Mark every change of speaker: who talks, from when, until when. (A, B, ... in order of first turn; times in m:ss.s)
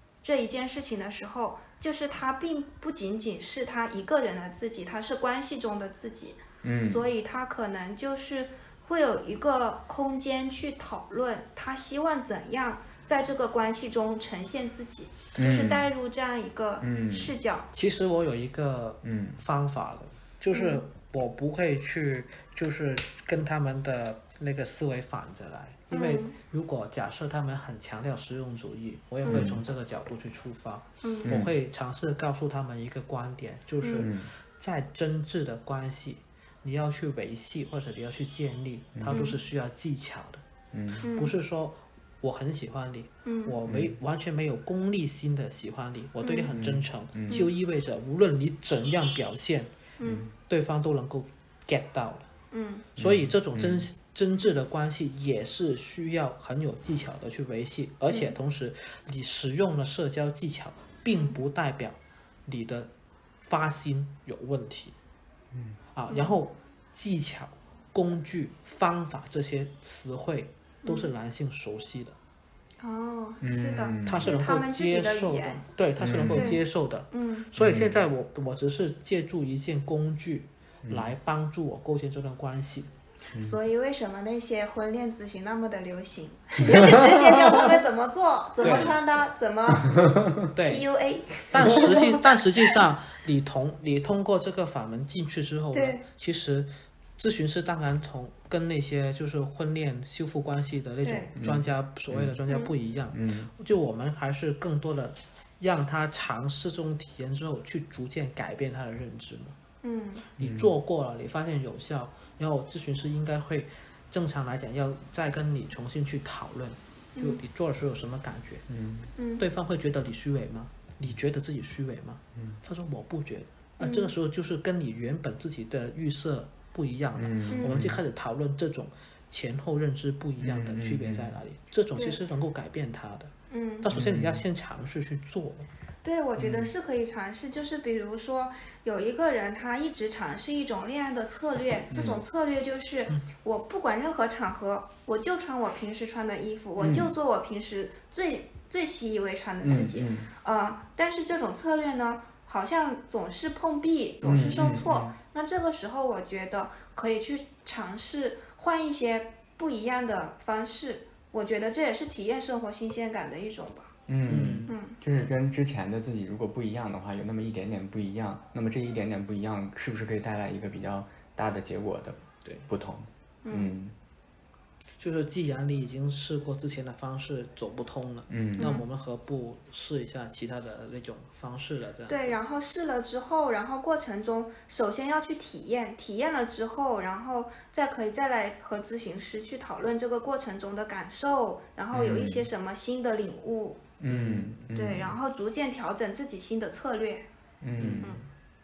0:00.2-0:17.7 A
0:06.6-0:07.1 B
0:15.4-0:15.9 B
0:16.8-0:17.4 B
0:17.7-0:40.4 C
0:19.0-0:19.4 B
0:20.5-0:20.8 A
0:25.9-0:26.3 A
0:29.2-0:29.5 A
0:29.2-0:29.6 B
0:31.0-0:31.4 A
0:31.2-0:31.5 B
0:33.8-0:34.1 A
0:34.0-0:34.3 B
0:39.0-0:39.3 B
0:39.1-0:39.4 A
0:40.7-0:41.0 B
0:41.0-0:41.4 A
0:41.0-0:49.7 C
0:43.2-0:43.6 A
0:43.7-0:43.9 B
0:46.2-0:46.5 A
0:46.5-0:47.5 B
0:50.0-0:50.3 A
0:50.0-0:50.3 B
0:50.5-0:52.3 C
0:52.5-0:52.9 A
0:53.0-1:02.9 C
0:53.0-0:53.8 B
0:58.1-0:58.4 A
1:03.4-1:04.9 C
1:05.5-1:05.8 B
1:05.9-1:12.2 C
1:10.8-1:11.1 A
1:12.8-1:15.6 A
1:13.4-1:14.3 B
1:14.0-1:22.9 C
1:16.0-1:16.6 B
1:16.2-1:16.6 A
1:17.1-1:17.5 A
1:17.6-1:18.0 B
1:20.8-1:21.1 B
1:23.4-1:30.0 A
1:26.6-1:27.2 B
1:26.7-1:27.1 C
1:28.6-1:28.9 B
1:28.6-1:28.9 C
1:29.9-1:30.4 B
1:30.5-1:30.8 C
1:30.6-1:32.2 A
1:31.5-1:49.6 C
1:35.7-1:36.0 A
1:41.0-1:41.3 A
1:41.4-1:42.4 B
1:43.1-1:43.5 B
1:49.8-1:50.2 A
1:50.4-1:58.6 C
1:50.4-1:50.7 B
1:58.7-1:59.1 B
1:59.2-1:59.4 A
1:59.4-2:15.7 C
2:03.8-2:04.1 A
2:07.2-2:08.0 B
2:07.5-2:07.8 A
2:10.4-2:11.3 B
2:13.5-2:13.9 A
2:13.9-2:14.4 B
2:16.0-2:43.9 A
2:16.4-2:16.7 B
2:21.9-2:22.2 B
2:26.8-2:27.1 B
2:29.6-2:30.3 B
2:34.2-2:35.1 B
2:44.1-2:53.9 B
2:44.2-2:44.7 C
2:44.7-2:45.0 A
2:53.4-2:53.7 A
2:55.0-3:02.3 C
2:58.3-2:58.8 B
2:58.6-2:58.8 A
3:02.1-3:13.8 A
3:11.9-3:12.5 B
3:14.0-3:15.2 B
3:14.1-3:14.6 C
3:14.7-3:17.2 A
3:17.6-3:18.2 B
3:17.8-3:18.3 C